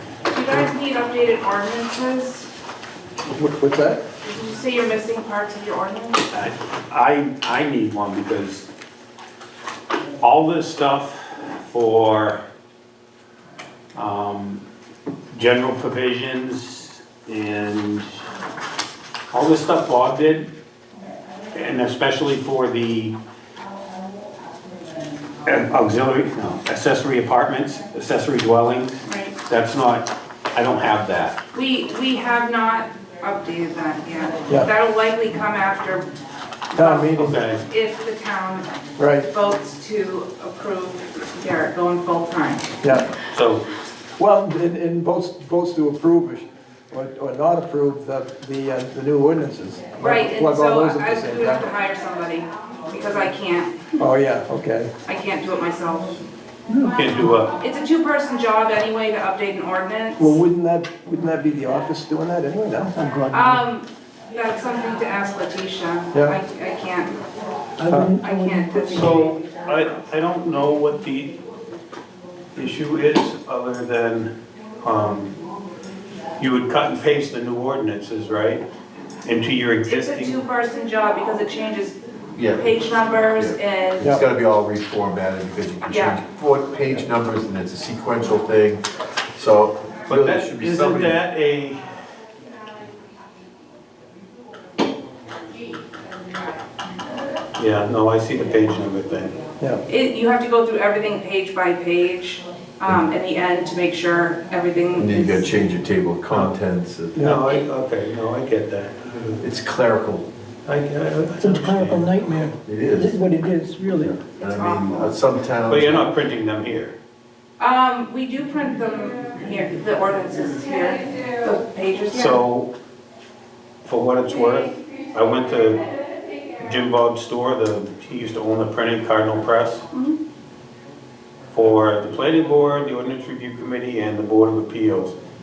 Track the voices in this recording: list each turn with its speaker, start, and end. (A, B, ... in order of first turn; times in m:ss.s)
0:00.3-0:02.5 A
0:03.3-0:04.0 B
0:04.2-0:06.2 A
0:06.3-0:08.7 C
0:10.2-0:12.4 C
0:13.9-0:14.6 C
0:15.3-0:18.2 C
0:19.3-0:20.5 C
0:21.5-0:23.2 C
0:25.4-0:31.4 C
0:29.1-0:29.4 A
0:31.5-0:36.1 A
0:36.7-0:42.8 A
0:36.8-0:37.4 B
0:37.2-0:37.6 C
0:39.0-0:39.3 B
0:42.8-0:43.1 B
0:43.3-0:43.6 C
0:44.2-0:51.7 B
0:50.0-0:54.0 A
0:54.0-0:54.9 B
0:55.0-0:56.2 A
0:56.9-0:57.5 C
0:57.6-1:00.3 A
1:00.2-1:03.0 B
1:03.0-1:03.6 D
1:03.3-1:07.2 A
1:07.8-1:09.2 D
1:07.9-1:08.2 B
1:08.2-1:09.4 A
1:08.9-1:11.4 C
1:12.5-1:14.3 C
1:14.8-1:15.3 C
1:16.4-1:18.6 C
1:19.2-1:20.4 C
1:19.8-1:24.2 A
1:22.4-1:22.8 E
1:23.3-1:31.2 E
1:25.9-1:26.2 A
1:30.1-1:31.9 C
1:37.6-1:39.4 C
1:39.9-1:45.5 A
1:45.0-1:47.3 E
1:47.2-1:47.4 B
1:47.2-1:49.4 C
1:49.4-1:50.3 E
1:50.7-1:52.4 C
1:51.4-1:54.2 D
1:52.6-1:53.2 E
1:54.0-1:56.1 E
1:54.4-1:55.1 A
1:55.7-1:57.0 C
1:57.6-2:02.4 A
2:02.1-2:02.7 C
2:03.8-2:05.8 C
2:06.6-2:09.8 C
2:09.9-2:10.2 A
2:11.5-2:15.2 C